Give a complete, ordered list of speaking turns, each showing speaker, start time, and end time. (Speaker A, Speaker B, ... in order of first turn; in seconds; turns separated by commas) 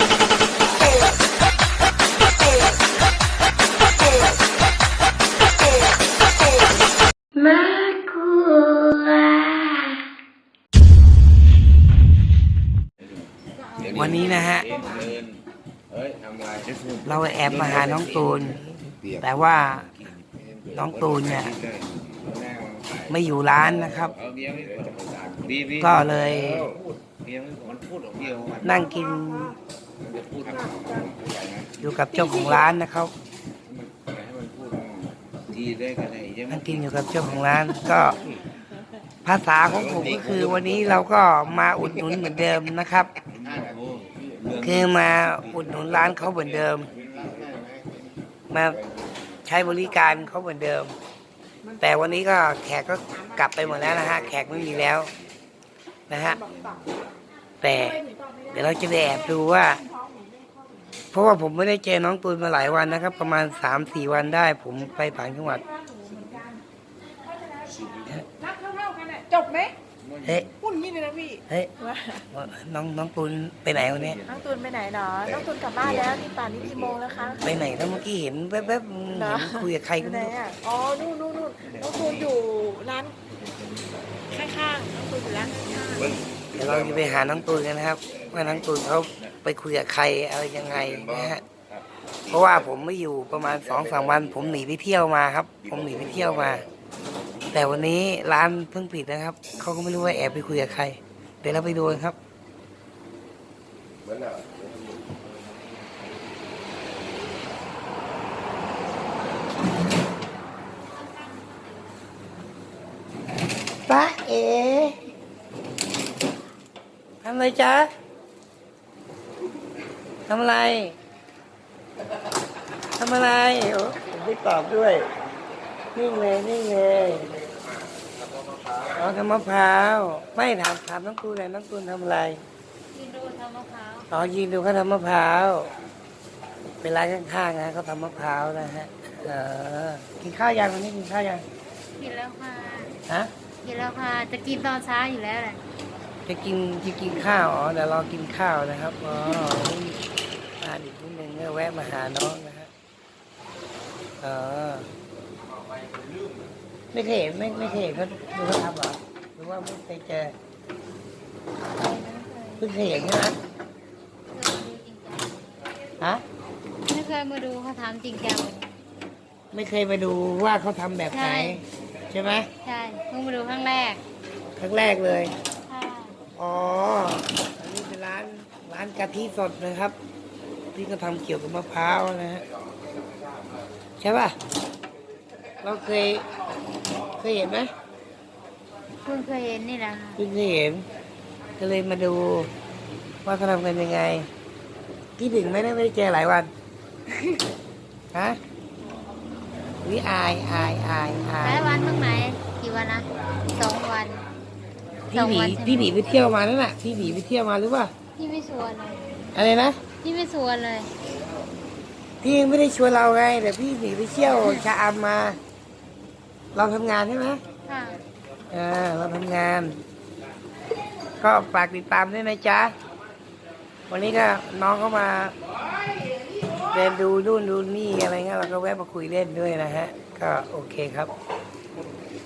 Speaker A: 7.4-10.0, Speaker A: 13.9-14.8, Speaker B: 14.8-15.2, Speaker A: 17.1-18.6, Speaker A: 19.2-19.9, Speaker A: 20.8-21.6, Speaker A: 23.1-24.1, Speaker A: 25.8-26.7, Speaker B: 28.2-28.6, Speaker A: 28.6-29.6, Speaker B: 30.5-31.1, Speaker A: 31.8-33.1, Speaker B: 35.7-36.3, Speaker A: 36.5-38.2, Speaker A: 39.2-43.1, Speaker A: 44.6-46.9, Speaker A: 48.5-48.8, Speaker A: 49.5-51.0, Speaker A: 51.8-55.1, Speaker A: 56.1-56.4, Speaker C: 56.4-56.8, Speaker A: 57.6-59.8, Speaker A: 61.1-65.7, Speaker C: 65.7-66.6, Speaker C: 67.3-67.8, Speaker C: 68.4-69.8, Speaker A: 70.2-70.5, Speaker C: 70.6-72.2, Speaker A: 72.3-74.2, Speaker C: 74.3-77.5, Speaker A: 77.4-80.4, Speaker C: 79.2-83.2, Speaker C: 84.3-86.1, Speaker A: 86.5-91.4, Speaker A: 92.3-96.7, Speaker A: 97.5-102.2, Speaker A: 113.9-115.0, Speaker A: 117.2-117.9, Speaker A: 120.3-121.0, Speaker A: 123.0-125.1, Speaker A: 126.0-127.3, Speaker A: 129.0-132.4, Speaker D: 132.9-134.1, Speaker A: 134.1-135.7, Speaker A: 136.8-141.4, Speaker D: 142.0-142.9, Speaker D: 143.6-145.6, Speaker A: 146.3-150.0, Speaker A: 150.6-152.7, Speaker A: 154.2-154.9, Speaker A: 156.9-160.3, Speaker D: 161.7-162.7, Speaker A: 162.6-163.4, Speaker D: 164.3-165.5, Speaker D: 166.9-168.8, Speaker A: 169.5-172.5, Speaker D: 171.1-171.6, Speaker D: 172.6-174.0, Speaker A: 174.6-175.3, Speaker D: 175.7-176.2, Speaker A: 176.4-180.0, Speaker A: 180.8-182.4, Speaker A: 184.0-184.4, Speaker A: 185.6-186.2, Speaker A: 187.2-187.7, Speaker D: 189.0-190.2, Speaker A: 190.2-190.9, Speaker A: 191.6-192.5, Speaker A: 193.2-194.3, Speaker A: 195.2-196.5, Speaker A: 198.1-198.4, Speaker A: 199.8-201.7, Speaker D: 201.4-204.2, Speaker A: 205.1-207.9, Speaker D: 205.1-206.0, Speaker D: 208.2-209.1, Speaker A: 209.3-209.8, Speaker D: 210.0-210.9, Speaker A: 212.2-215.4, Speaker A: 216.5-217.4, Speaker D: 217.7-218.0, Speaker A: 218.5-219.8, Speaker A: 221.2-222.7, Speaker A: 223.9-225.3, Speaker A: 226.7-231.1